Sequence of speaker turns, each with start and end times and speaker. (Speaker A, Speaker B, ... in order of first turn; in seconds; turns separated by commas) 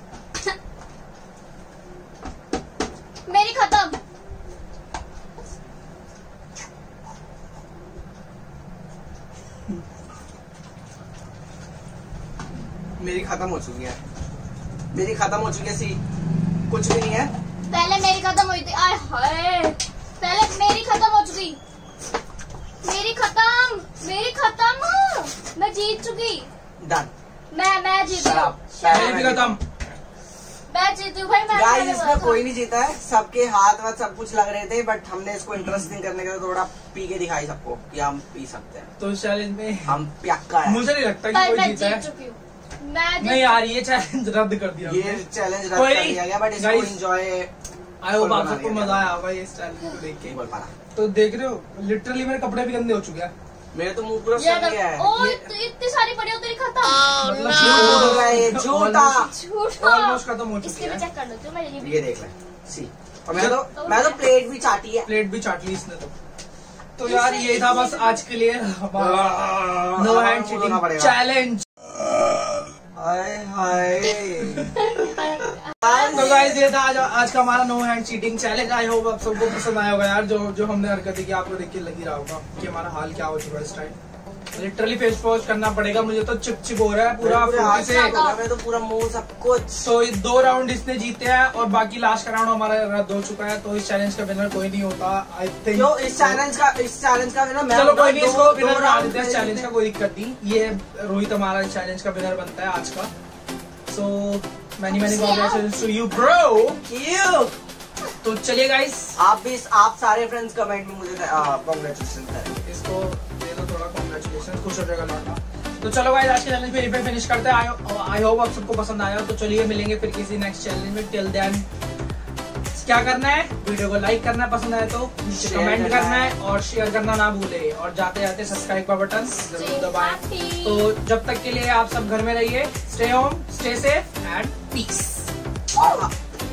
Speaker A: 3.2-4.0, Speaker B: 13.0-14.0, Speaker B: 14.9-16.0, Speaker B: 16.7-17.3, Speaker A: 17.7-21.6, Speaker A: 22.8-26.5, Speaker B: 26.8-27.1, Speaker A: 27.5-29.4, Speaker B: 28.1-29.6, Speaker C: 28.9-29.6, Speaker A: 30.7-32.5, Speaker B: 31.5-38.9, Speaker C: 39.0-40.0, Speaker B: 39.9-40.8, Speaker C: 40.6-42.1, Speaker A: 41.3-43.6, Speaker C: 43.2-47.0, Speaker B: 44.8-47.5, Speaker C: 48.0-50.3, Speaker B: 48.1-49.1, Speaker B: 50.2-50.7, Speaker C: 50.9-53.3, Speaker B: 53.7-55.5, Speaker A: 54.4-57.8, Speaker C: 57.2-61.0, Speaker B: 57.4-59.3, Speaker A: 59.1-62.0, Speaker B: 61.8-65.1, Speaker C: 63.3-63.6, Speaker A: 63.8-64.2, Speaker C: 65.0-66.1, Speaker C: 67.0-71.7, Speaker A: 67.0-68.2, Speaker B: 69.0-71.2, Speaker B: 72.9-74.7, Speaker A: 74.8-76.6, Speaker B: 75.8-76.5, Speaker C: 76.0-83.9, Speaker C: 84.5-88.2, Speaker B: 87.2-89.8, Speaker A: 87.6-88.4, Speaker C: 89.8-96.4, Speaker B: 95.7-99.7, Speaker C: 97.7-103.1, Speaker C: 103.9-106.8, Speaker A: 104.9-105.8, Speaker B: 106.8-107.5, Speaker C: 108.2-109.2, Speaker B: 109.2-112.7, Speaker C: 112.6-121.6, Speaker C: 122.7-135.3, Speaker B: 125.3-126.3, Speaker A: 129.5-130.9, Speaker B: 135.8-136.1